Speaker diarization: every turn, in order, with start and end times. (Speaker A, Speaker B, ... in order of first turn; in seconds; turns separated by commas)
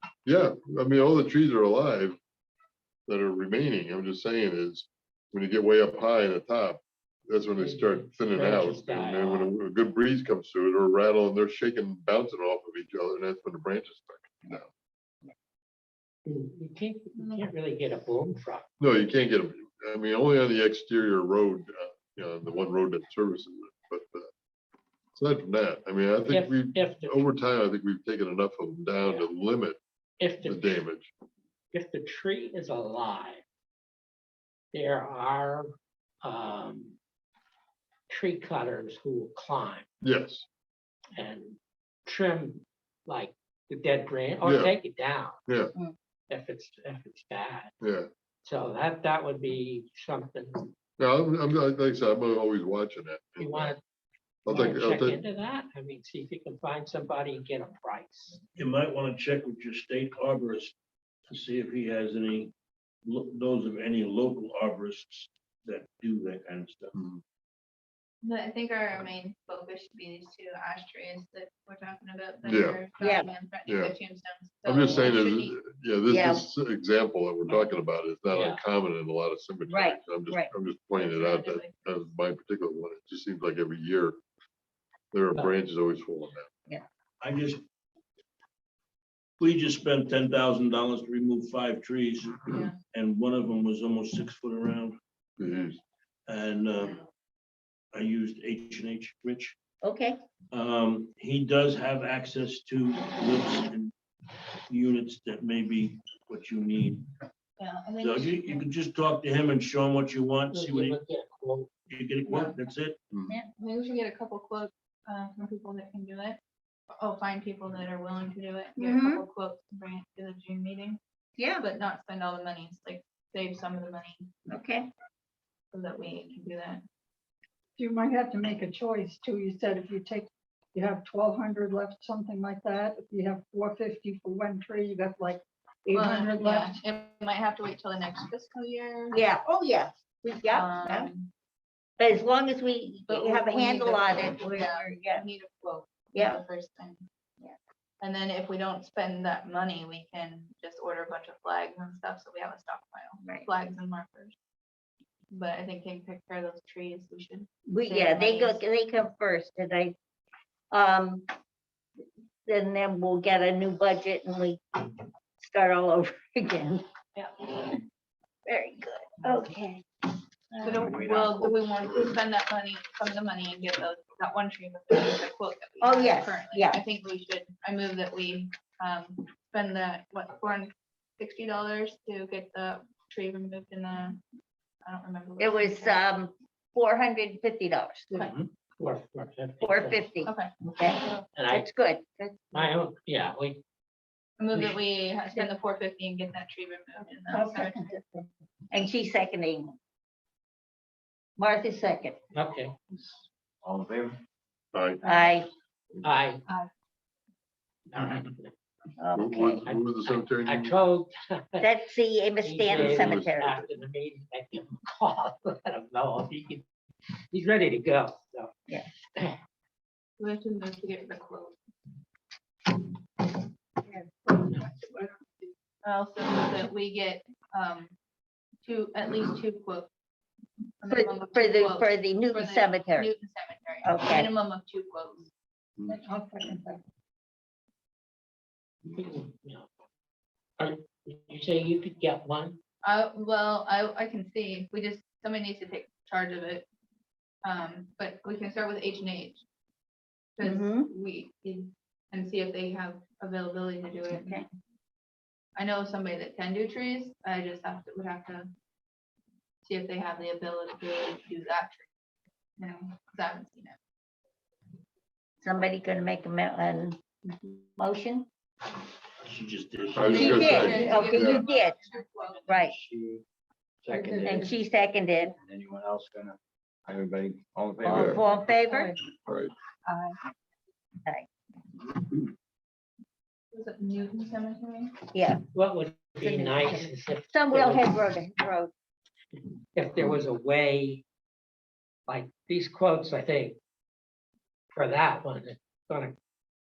Speaker A: 0.2-2.2, Speaker A: 3.1-14.7, Speaker B: 7.6-9.5, Speaker B: 16.2-18.7, Speaker C: 17.2-17.4, Speaker A: 18.8-24.3, Speaker A: 25.1-29.8, Speaker B: 26.3-27.2, Speaker B: 29.0-29.3, Speaker B: 30.2-30.8, Speaker A: 30.4-31.1, Speaker B: 31.7-33.4, Speaker B: 34.7-35.7, Speaker B: 36.2-37.0, Speaker B: 38.1-39.9, Speaker A: 40.0-40.5, Speaker B: 41.2-45.4, Speaker A: 44.4-44.8, Speaker A: 45.5-45.7, Speaker B: 46.3-47.7, Speaker A: 47.8-48.1, Speaker B: 48.4-50.7, Speaker A: 51.0-53.7, Speaker B: 53.4-53.8, Speaker A: 54.5-55.2, Speaker B: 54.5-58.4, Speaker D: 58.5-60.7, Speaker D: 61.3-62.5, Speaker D: 63.0-66.9, Speaker A: 66.9-67.2, Speaker C: 68.2-75.6, Speaker A: 72.4-72.8, Speaker E: 73.0-73.3, Speaker A: 73.6-73.9, Speaker A: 74.6-84.2, Speaker E: 76.1-76.5, Speaker B: 77.5-77.7, Speaker B: 78.3-78.6, Speaker E: 79.7-80.5, Speaker C: 80.9-82.0, Speaker A: 85.1-86.5, Speaker D: 87.2-87.6, Speaker D: 89.4-95.0, Speaker A: 95.4-95.8, Speaker D: 96.3-97.0, Speaker D: 97.9-99.5, Speaker E: 99.8-100.2, Speaker D: 100.5-103.9, Speaker D: 104.7-107.1, Speaker C: 107.6-108.7, Speaker D: 108.0-111.0, Speaker B: 110.5-111.7, Speaker D: 111.9-113.0, Speaker C: 112.2-112.5, Speaker A: 113.1-113.3, Speaker C: 113.6-116.4, Speaker C: 116.9-121.0, Speaker E: 118.8-119.2, Speaker E: 121.4-121.6, Speaker C: 121.6-124.3, Speaker E: 124.5-124.9, Speaker C: 125.7-126.8, Speaker F: 127.8-136.8, Speaker C: 135.9-139.2, Speaker E: 139.1-141.1, Speaker C: 140.5-141.3, Speaker E: 142.0-145.2, Speaker C: 143.1-147.0, Speaker E: 146.1-146.4, Speaker C: 148.0-154.3, Speaker E: 153.2-153.5, Speaker C: 155.3-158.6, Speaker E: 157.7-159.9, Speaker E: 160.7-161.3, Speaker E: 162.4-164.6, Speaker E: 165.4-166.8, Speaker E: 167.5-167.8, Speaker E: 168.4-169.8, Speaker G: 170.5-172.1, Speaker C: 170.6-184.2, Speaker E: 175.8-176.8, Speaker C: 184.8-186.0, Speaker E: 185.4-188.1, Speaker C: 188.1-188.4, Speaker B: 188.1-190.0, Speaker E: 189.6-192.7, Speaker C: 190.2-191.2, Speaker B: 191.3-191.7, Speaker B: 192.5-193.6, Speaker C: 194.4-197.9, Speaker E: 197.3-198.0, Speaker E: 198.7-199.7, Speaker E: 201.4-202.2, Speaker B: 202.3-202.7, Speaker G: 202.9-204.2, Speaker A: 204.7-205.0, Speaker E: 205.0-205.5, Speaker B: 206.0-206.4, Speaker B: 207.9-208.5, Speaker E: 209.0-209.6, Speaker A: 209.1-210.8, Speaker B: 209.6-211.7, Speaker E: 211.6-213.6, Speaker B: 212.4-216.6, Speaker A: 212.7-213.7, Speaker B: 217.3-218.5, Speaker C: 220.2-221.6, Speaker C: 225.8-227.9, Speaker C: 228.6-229.9, Speaker C: 230.8-235.3, Speaker E: 230.9-233.1, Speaker E: 233.8-234.3, Speaker F: 235.8-236.8, Speaker B: 238.9-239.7, Speaker B: 240.6-242.6, Speaker C: 242.8-246.7, Speaker C: 247.4-249.4, Speaker C: 250.4-254.5, Speaker E: 250.4-250.9, Speaker E: 254.1-254.4, Speaker C: 255.6-258.5, Speaker C: 259.6-261.9, Speaker C: 262.6-263.8, Speaker E: 265.4-268.3, Speaker D: 269.2-270.7, Speaker A: 269.9-271.4, Speaker E: 270.1-271.8, Speaker C: 270.6-272.5, Speaker F: 270.8-271.0, Speaker G: 272.2-273.2, Speaker E: 272.5-272.8, Speaker G: 273.8-274.5, Speaker F: 273.9-274.5, Speaker E: 274.2-275.3, Speaker G: 275.3-278.6, Speaker E: 277.8-278.9, Speaker F: 278.7-279.0, Speaker F: 279.9-280.2, Speaker C: 283.5-284.9, Speaker E: 285.1-285.4, Speaker B: 285.5-288.0, Speaker E: 286.2-288.7, Speaker B: 289.7-291.0, Speaker B: 292.1-293.6, Speaker B: 294.7-296.2